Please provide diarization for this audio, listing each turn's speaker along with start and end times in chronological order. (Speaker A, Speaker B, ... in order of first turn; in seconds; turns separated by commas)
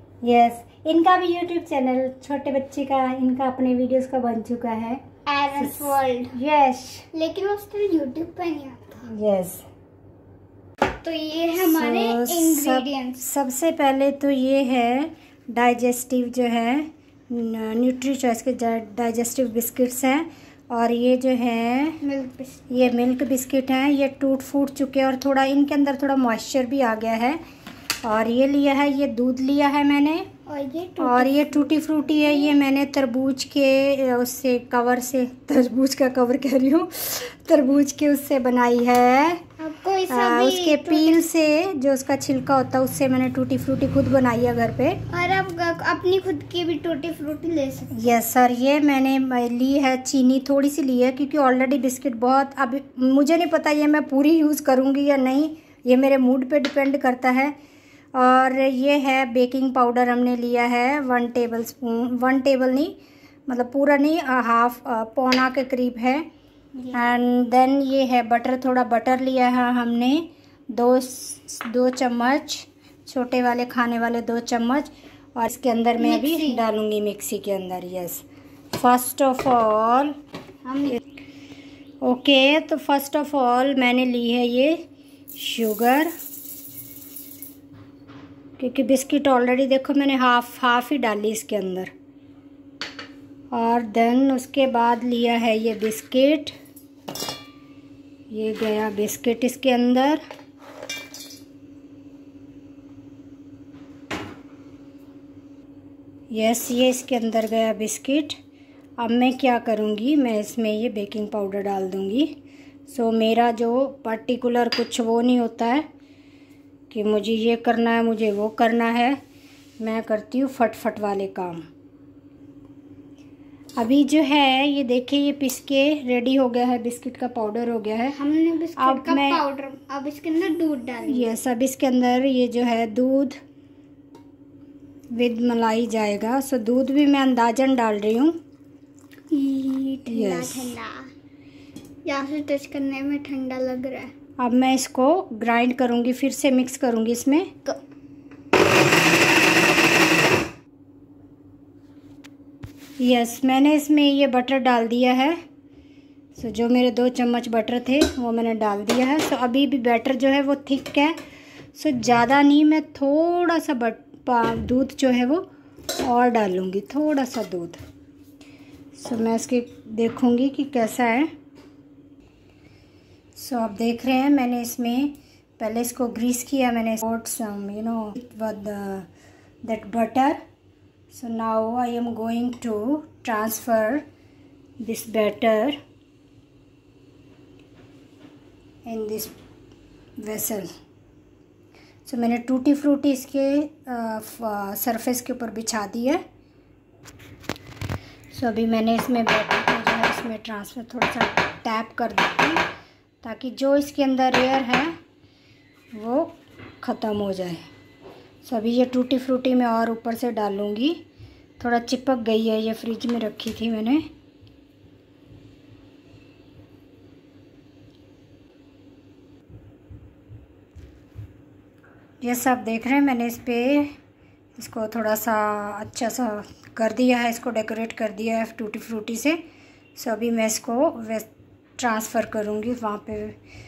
Speaker A: 0.2-5.0, Speaker B: 5.3-6.3, Speaker A: 5.6-7.1, Speaker B: 7.1-9.0, Speaker A: 9.1-9.6, Speaker B: 11.0-13.2, Speaker A: 11.6-22.0, Speaker B: 22.0-22.7, Speaker A: 22.7-27.4, Speaker A: 28.0-30.3, Speaker B: 30.5-32.5, Speaker A: 31.0-39.4, Speaker B: 39.6-41.2, Speaker A: 40.1-45.0, Speaker B: 45.1-47.9, Speaker A: 47.9-57.5, Speaker A: 58.1-63.0, Speaker A: 63.5-66.3, Speaker A: 66.9-80.1, Speaker B: 76.0-76.6, Speaker B: 80.6-81.0, Speaker A: 82.0-84.8, Speaker A: 85.4-86.1, Speaker A: 88.6-91.9, Speaker A: 93.5-96.5, Speaker A: 98.3-100.2, Speaker A: 106.3-108.4, Speaker A: 109.0-112.3, Speaker A: 112.9-115.9, Speaker A: 116.9-119.2, Speaker A: 119.8-121.6, Speaker A: 123.8-128.2, Speaker B: 128.1-131.3, Speaker A: 128.8-129.4, Speaker A: 131.1-133.4, Speaker A: 135.1-138.4, Speaker B: 139.3-141.1, Speaker A: 140.1-140.7, Speaker B: 142.1-144.1, Speaker A: 144.4-147.5, Speaker A: 153.0-155.4, Speaker A: 156.4-161.2, Speaker A: 161.8-165.4, Speaker A: 166.0-167.8, Speaker A: 168.9-171.3, Speaker A: 173.4-179.1, Speaker A: 179.6-180.4, Speaker A: 181.1-184.1, Speaker A: 184.8-185.8, Speaker A: 188.8-189.3, Speaker A: 190.2-190.7, Speaker A: 192.1-196.2, Speaker A: 198.3-202.6, Speaker A: 203.2-204.9, Speaker A: 205.9-207.7, Speaker A: 208.4-211.0, Speaker A: 211.6-214.1, Speaker A: 222.2-223.9, Speaker A: 224.6-229.4, Speaker A: 230.0-233.4